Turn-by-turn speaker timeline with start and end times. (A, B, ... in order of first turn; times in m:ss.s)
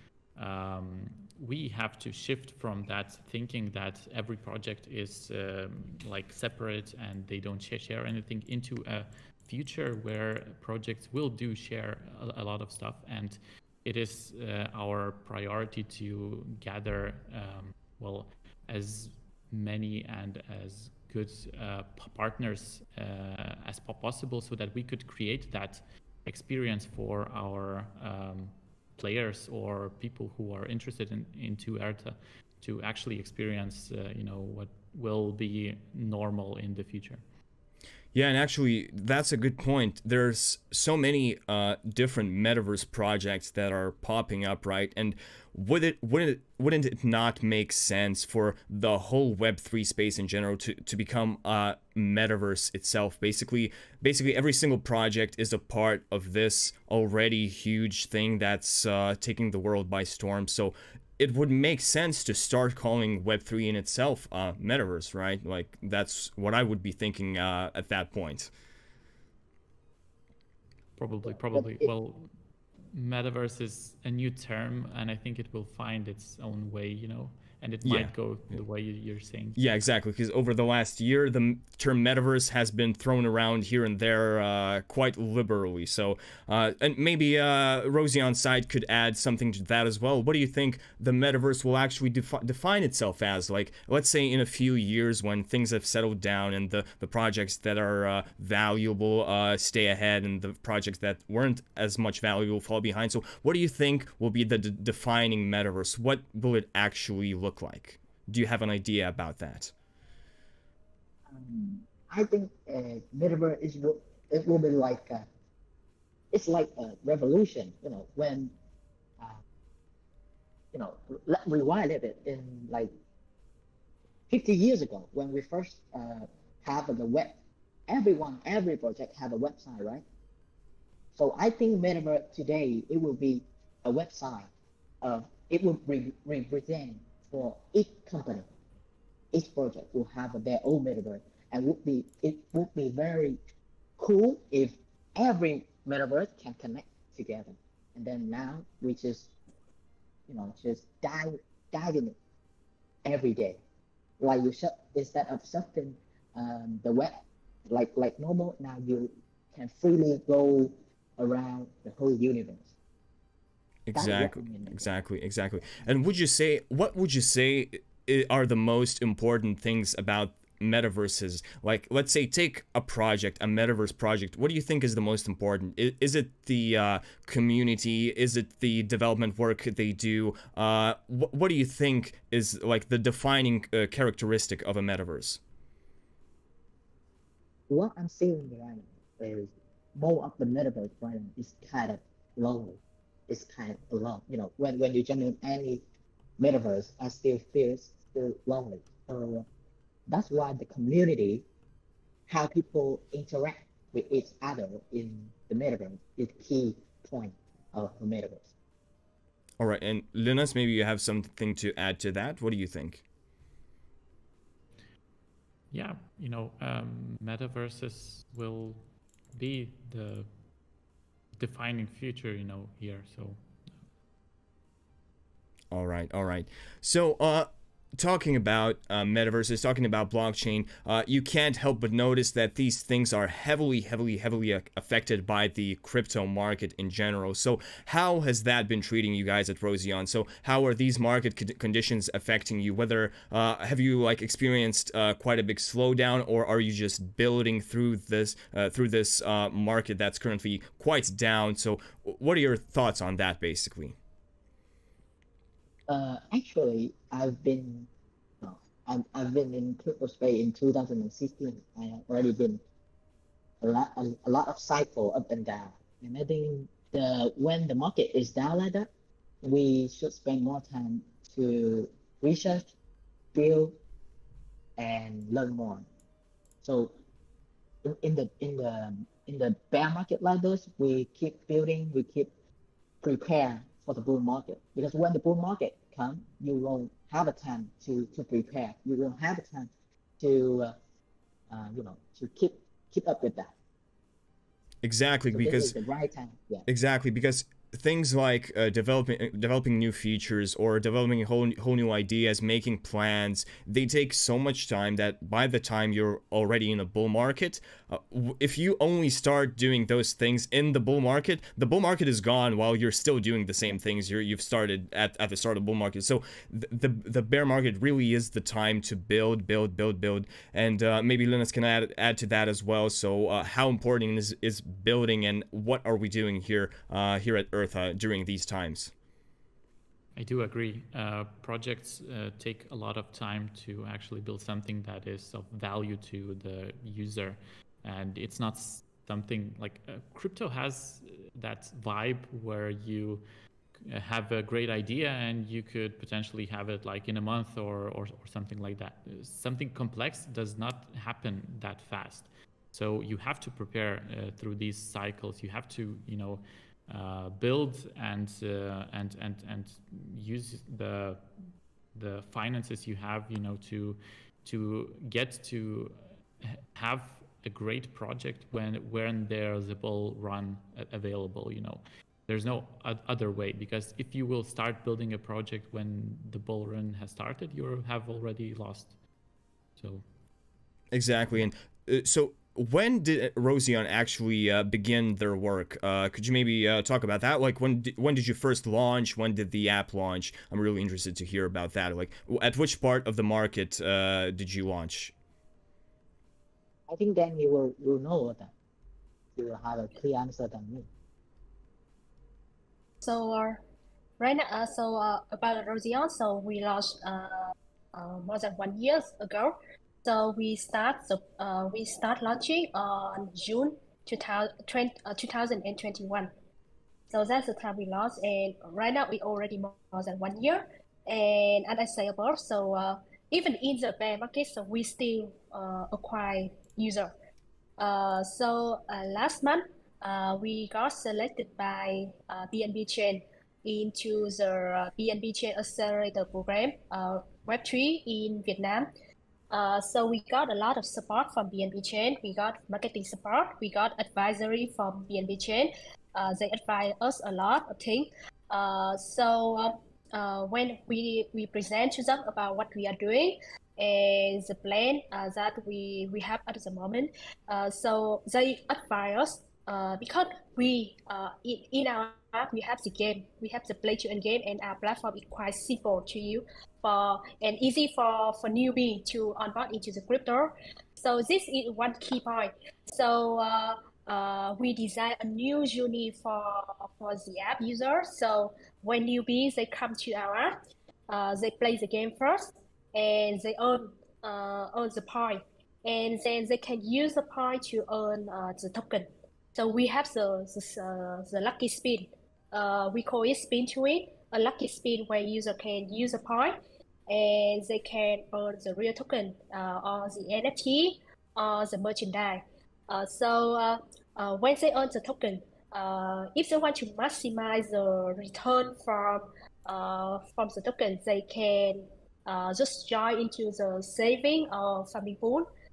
0:00.4-0:37.2 A
0:38.1-1:08.5 B
1:11.0-1:12.3 A
1:11.3-1:11.9 C
1:12.9-1:19.6 A
1:17.8-1:18.1 B
1:19.6-1:49.7 B
1:51.3-1:55.3 C
1:56.3-1:58.5 C
2:00.7-2:02.9 C
2:04.3-2:10.0 C
2:11.2-2:14.5 C
2:15.0-2:18.5 C
2:19.3-2:23.4 C
2:24.0-2:29.3 C
2:30.3-2:32.2 C
2:33.0-2:33.6 C
2:34.2-2:42.7 C
2:43.9-3:05.4 B
2:44.0-2:44.8 C
3:07.7-3:15.8 C
3:16.4-3:19.5 C
3:20.1-3:21.4 C
3:22.3-3:28.5 C
3:29.6-3:33.0 B
3:35.7-3:40.3 A
3:41.4-3:43.4 A
3:45.7-4:14.0 B
4:15.9-4:17.9 C
4:18.4-4:22.6 C
4:23.6-4:28.9 C
4:29.4-4:32.7 C
4:33.3-4:33.8 C
4:34.8-4:35.9 C
4:36.6-4:36.9 C
4:37.8-4:42.3 C
4:43.0-4:50.8 C
4:51.5-4:53.5 C
4:54.8-4:55.7 B
4:55.3-4:56.7 C
4:56.7-5:28.9 B
5:30.2-5:43.2 A
5:43.8-6:01.3 A
6:01.9-6:19.0 A
6:19.8-6:20.0 A
6:20.9-6:35.1 B
6:36.9-6:38.5 C
6:39.4-6:40.9 C
6:43.0-6:43.6 D
6:44.2-6:56.3 D
6:57.1-7:07.1 D
7:07.8-7:18.9 D
7:19.5-8:00.6 D
8:01.1-8:35.5 D